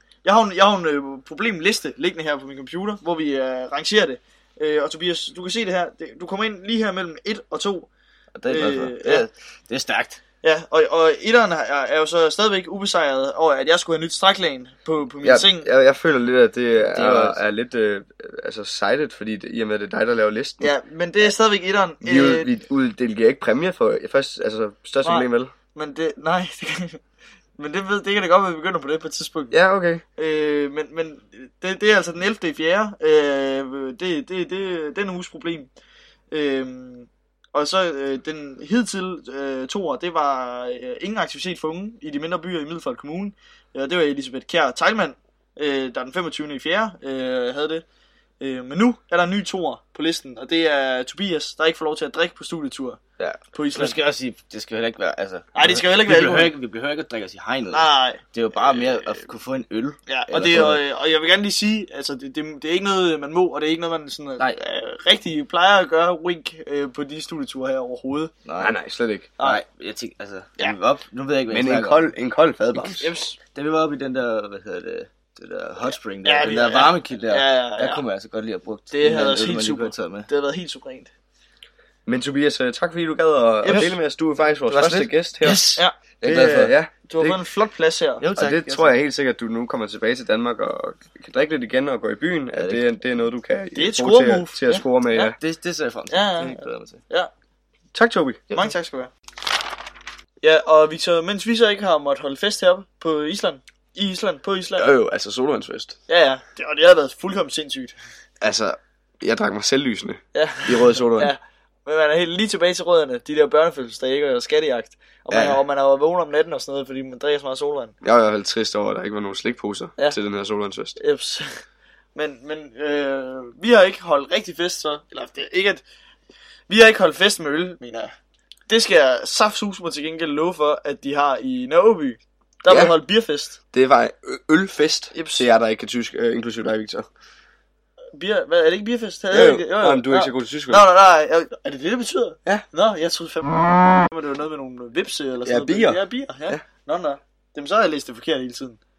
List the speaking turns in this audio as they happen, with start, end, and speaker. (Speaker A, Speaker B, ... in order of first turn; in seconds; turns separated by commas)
Speaker A: 0.2-7.9, Speaker B: 8.3-10.2, Speaker A: 8.4-9.3, Speaker A: 10.4-15.7, Speaker C: 15.2-20.7, Speaker B: 16.9-17.4, Speaker A: 20.6-22.5, Speaker C: 22.0-25.5, Speaker A: 25.0-27.0, Speaker A: 27.6-29.5, Speaker C: 29.5-30.0, Speaker A: 30.2-35.7, Speaker A: 36.3-47.8, Speaker A: 48.4-53.0, Speaker B: 53.2-60.8, Speaker A: 53.5-54.0, Speaker A: 55.5-56.5, Speaker A: 57.7-59.3, Speaker A: 60.1-68.3, Speaker C: 60.3-60.8, Speaker B: 68.4-68.7, Speaker C: 68.6-69.3, Speaker A: 69.4-69.6, Speaker B: 69.4-72.1, Speaker C: 71.5-73.1, Speaker A: 73.0-73.4, Speaker B: 73.5-80.3, Speaker A: 76.2-78.0, Speaker A: 78.9-81.1, Speaker C: 82.0-85.7, Speaker A: 83.6-83.9, Speaker B: 83.7-84.0, Speaker B: 84.7-86.8, Speaker C: 86.2-87.4, Speaker A: 87.1-88.2, Speaker B: 88.2-88.9, Speaker C: 88.3-95.3, Speaker B: 92.6-92.8, Speaker A: 93.7-95.3, Speaker B: 95.2-97.0, Speaker A: 96.1-97.3, Speaker C: 97.9-98.5, Speaker A: 98.5-99.1, Speaker A: 100.4-104.9, Speaker C: 104.8-106.0, Speaker A: 106.1-108.0, Speaker C: 108.4-111.3, Speaker A: 110.3-117.9, Speaker C: 115.3-115.6, Speaker C: 118.0-121.0, Speaker A: 121.0-121.5, Speaker A: 122.1-125.8, Speaker A: 126.7-128.1, Speaker A: 128.7-133.6, Speaker C: 132.7-132.9, Speaker C: 133.7-137.1, Speaker A: 135.1-135.5, Speaker A: 138.1-148.8, Speaker C: 139.3-140.8, Speaker C: 145.4-146.6